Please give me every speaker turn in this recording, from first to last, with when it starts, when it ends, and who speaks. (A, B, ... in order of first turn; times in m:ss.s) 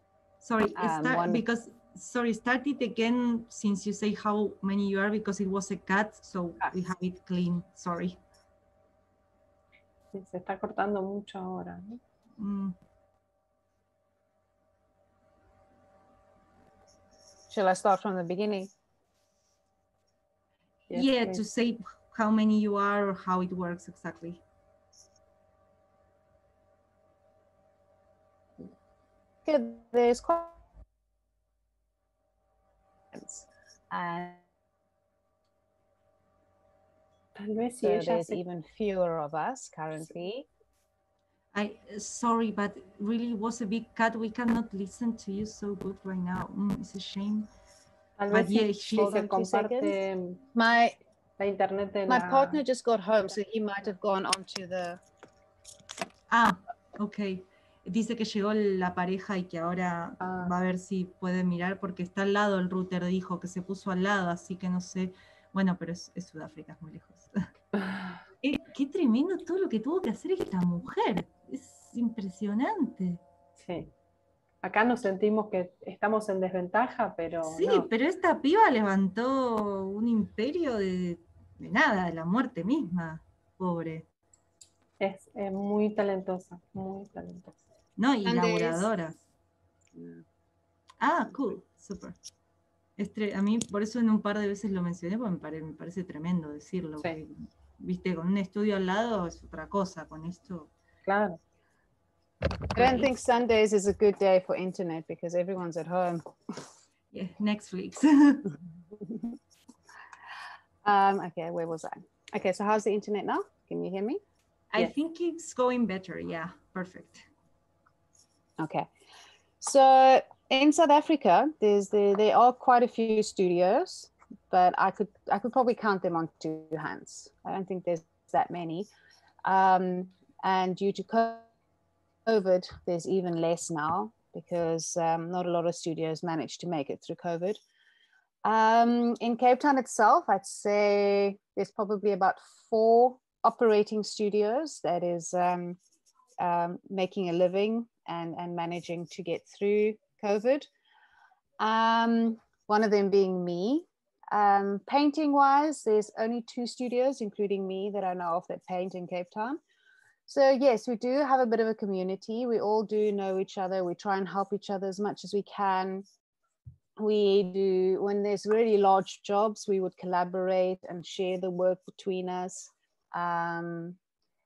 0:00.4-0:08.2 A
0:00.8-0:01.4 B
0:10.1-0:12.0 C
0:12.4-0:12.8 A
0:17.5-0:18.7 B
0:20.9-0:21.4 C
0:20.9-0:24.4 A
0:29.4-0:30.5 B
0:33.1-0:34.4 B
0:37.3-0:38.4 C
0:37.8-0:40.5 B
0:41.5-0:47.5 A
0:48.2-0:50.4 C
0:48.3-0:49.2 A
0:49.0-0:50.0 B
0:50.5-0:51.0 B
0:51.4-0:52.6 C
0:52.1-0:55.0 B
0:56.3-1:07.4 A
1:00.2-1:00.5 C
1:08.4-1:13.2 A
1:13.6-1:13.9 C
1:14.6-1:17.9 C
1:17.5-1:24.0 A
1:25.0-1:27.6 C
1:28.0-1:29.2 A
1:28.2-1:28.9 B
1:29.9-1:30.2 B
1:31.0-1:32.2 A
1:33.0-1:40.7 A
1:41.0-1:41.4 C
1:42.7-1:46.7 B
1:47.1-1:48.5 A
1:48.9-1:49.4 B
1:50.8-1:54.2 B
1:54.7-1:57.3 A
1:58.6-1:58.9 B
1:59.6-2:08.9 B
2:09.4-2:11.5 B
2:12.2-2:17.6 B
2:18.4-2:25.8 B
2:26.4-2:30.7 B
2:31.6-2:39.6 B
2:40.3-2:46.0 B
2:47.0-2:54.0 B